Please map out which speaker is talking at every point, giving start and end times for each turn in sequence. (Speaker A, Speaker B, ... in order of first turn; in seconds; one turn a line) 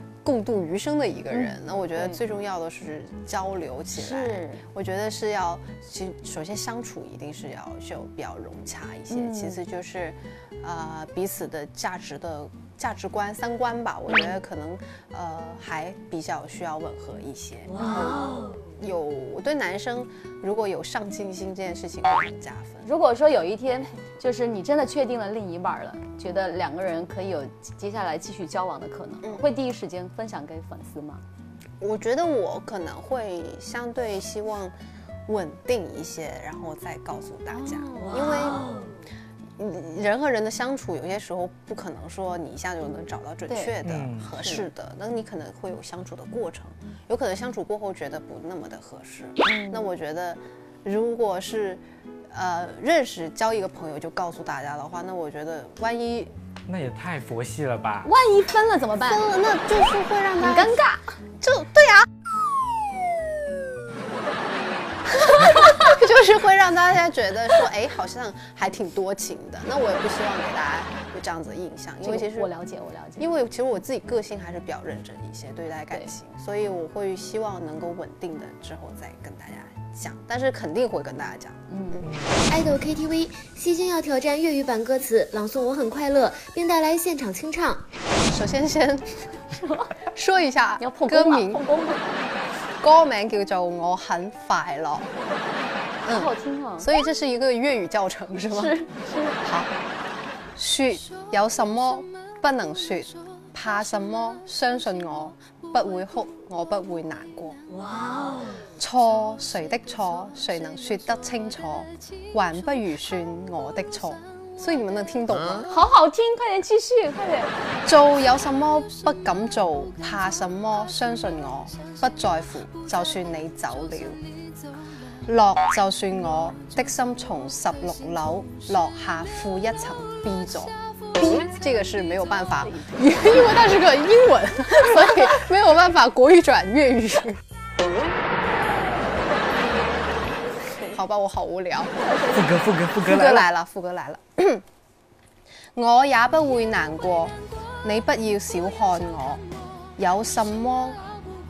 Speaker A: 0.2-22.9
Speaker B: 1.3-2.2
Speaker B: 3.9-4.6
Speaker B: 9.1-9.6
Speaker B: 17.8-18.1
Speaker B: 22.8-31.2
Speaker A: 31.8-34.7
Speaker A: 35.3-38.7
Speaker A: 39.6-56.3
Speaker B: 43.5-43.7
Speaker C: 43.8-44.4
Speaker B: 49.4-49.9
Speaker C: 56.7-58.1
Speaker B: 58.0-59.2
Speaker A: 59.0-60.8
Speaker B: 60.4-61.0
Speaker A: 61.4-62.2
Speaker A: 65.0-72.5
Speaker B: 65.4-66.0
Speaker B: 72.0-73.3
Speaker A: 73.2-82.1
Speaker B: 81.7-82.1
Speaker C: 82.0-82.4
Speaker D: 82.5-87.8
Speaker A: 88.3-89.4
Speaker B: 89.6-89.9
Speaker A: 90.1-91.6
Speaker B: 90.8-92.1
Speaker A: 92.8-95.1
Speaker A: 96.0-98.8
Speaker B: 96.1-96.9
Speaker B: 98.5-99.4
Speaker A: 99.4-99.7
Speaker A: 100.5-107.6
Speaker A: 108.8-115.7
Speaker B: 115.7-117.5
Speaker A: 117.8-124.2
Speaker A: 125.2-137.4
Speaker A: 140.8-142.2
Speaker C: 142.3-143.5
Speaker A: 143.0-144.6
Speaker A: 145.7-149.4
Speaker A: 150.0-151.0